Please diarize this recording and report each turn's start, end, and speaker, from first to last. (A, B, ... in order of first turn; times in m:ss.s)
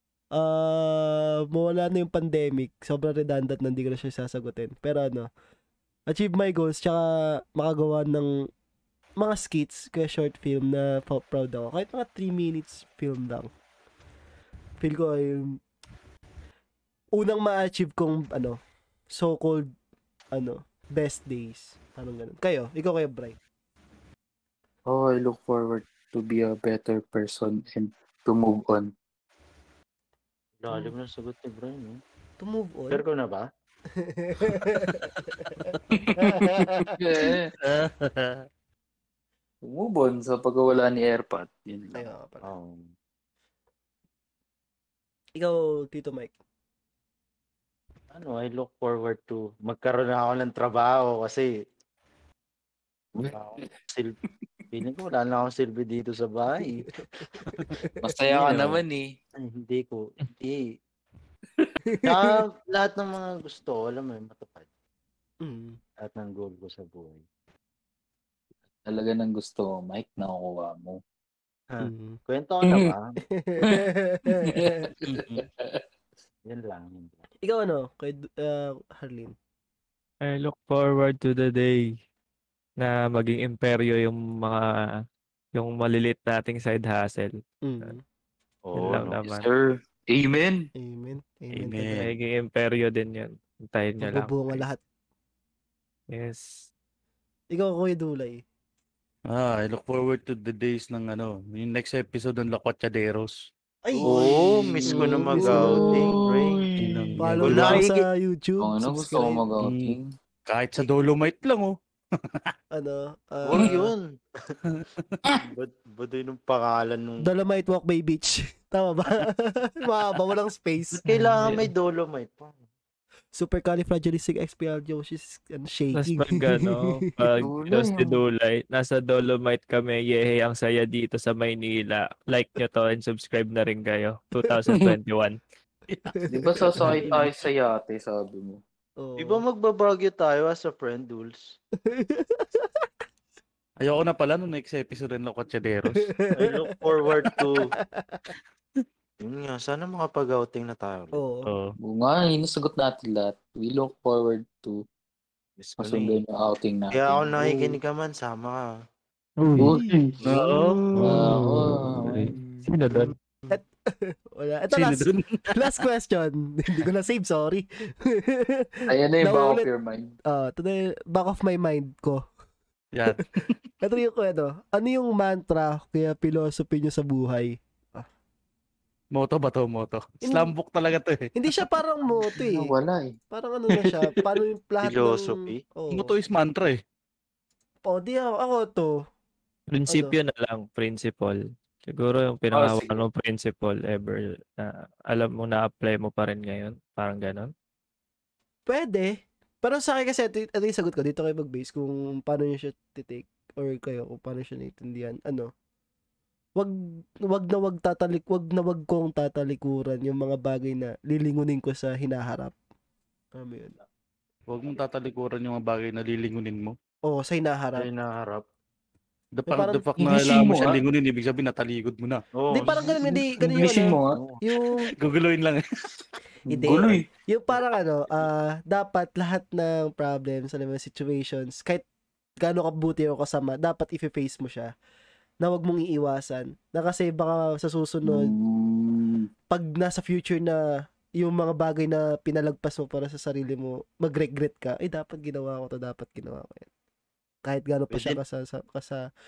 0:00.3-0:05.3 A
0:06.1-0:08.5 A
0:09.2-0:13.5 A
0:14.8-0:15.6 A
0:17.2-0:18.6 A
0:19.1-0:19.7 A
0:20.3-0:23.4 A
0:24.9-0:28.9 B
0:30.6-0:32.0 C
0:32.4-0:33.0 A
0:32.9-0:33.4 C
0:34.0-0:37.0 A
0:35.9-0:37.6 B
0:37.6-0:38.4 D
0:39.6-0:42.1 B
0:41.9-0:42.5 A
0:42.4-0:42.9 C
0:45.4-0:46.3 A
0:48.1-0:51.5 C
0:53.2-0:54.2 C
0:54.7-0:56.9 C
0:57.0-0:58.1 A
0:58.0-0:59.1 B
0:58.3-0:58.8 C
0:59.4-1:00.7 C
1:01.9-1:02.4 A
1:02.0-1:04.7 C
1:05.4-1:05.8 A
1:06.0-1:07.2 C
1:08.8-1:11.0 B
1:11.7-1:13.1 C
1:11.8-1:12.2 A
1:12.6-1:12.9 B
1:13.3-1:14.9 A
1:14.4-1:15.8 B
1:15.0-1:15.4 D
1:16.4-1:17.2 C
1:17.4-1:19.3 A
1:20.2-1:21.8 E
1:22.8-1:24.6 E
1:25.5-1:28.0 E
1:27.6-1:28.0 A
1:28.7-1:29.2 C
1:28.7-1:29.5 E
1:29.2-1:30.7 B
1:30.8-1:32.0 A
1:31.5-1:32.1 D
1:31.9-1:34.6 E
1:34.0-1:34.8 A
1:36.1-1:36.7 E
1:37.5-1:38.4 A
1:39.3-1:43.5 D
1:43.8-1:44.2 A
1:44.0-1:46.6 C
1:44.8-1:47.3 B
1:44.9-1:46.0 A
1:46.8-1:47.8 D
1:47.2-1:49.4 A
1:47.4-1:48.0 C
1:48.6-1:50.1 B
1:49.6-1:52.5 D
1:52.7-1:53.9 A
1:53.4-1:54.6 C
1:54.7-1:55.2 D
1:55.4-1:57.3 C
1:57.2-2:01.1 A
2:01.0-2:02.6 C
2:01.4-2:01.7 B
2:03.3-2:07.2 A
2:05.9-2:15.4 E
2:07.4-2:08.2 B
2:14.7-2:14.9 B
2:15.9-2:17.2 D
2:16.0-2:17.3 A
2:16.3-2:18.6 B
2:19.0-2:19.4 A
2:19.2-2:21.6 C
2:21.8-2:22.8 A
2:23.8-2:26.1 D
2:25.9-2:26.5 A
2:26.4-2:27.7 C
2:27.4-2:28.3 A
2:29.2-2:31.2 C
2:31.1-2:31.5 A
2:31.4-2:31.7 D
2:31.8-2:34.8 B
2:35.6-2:36.2 C
2:35.8-2:37.6 B
2:36.9-2:38.6 C
2:39.4-2:40.1 A
2:39.4-2:40.2 E
2:39.6-2:40.0 B
2:40.2-2:41.3 C
2:40.2-2:40.9 D
2:40.9-2:43.1 E
2:41.0-2:42.3 B
2:42.3-2:49.7 A
2:44.7-2:45.7 D
2:48.9-2:50.1 B
2:50.3-2:52.2 A
2:52.9-2:53.5 D
2:53.8-2:58.0 A
2:59.1-3:01.3 D
3:00.2-3:00.5 A
3:01.3-3:02.7 A
3:02.3-3:03.2 B
3:03.3-3:06.1 A
3:03.7-3:04.2 B
3:04.8-3:05.6 C
3:05.9-3:06.8 D
3:07.8-3:08.9 A
3:09.7-3:17.5 E
3:09.9-3:10.2 A
3:12.5-3:13.0 B
3:18.6-3:25.5 A
3:27.2-3:32.5 A
3:33.3-3:33.8 A
3:34.5-3:36.8 D
3:37.1-3:37.9 A
3:37.8-3:38.4 C
3:39.3-3:42.2 D
3:39.5-3:39.9 A
3:40.0-3:40.8 B
3:42.4-3:43.0 C
3:42.5-3:44.9 A
3:43.0-3:44.2 B
3:44.1-3:44.4 C
3:44.6-3:45.6 D
3:46.5-3:51.8 A
3:46.5-3:47.0 B
3:52.4-3:54.7 A
3:55.4-3:58.3 A
3:58.0-3:59.3 B
3:59.5-4:00.6 A
4:01.2-4:06.7 A
4:07.4-4:09.0 A
4:07.9-4:08.2 C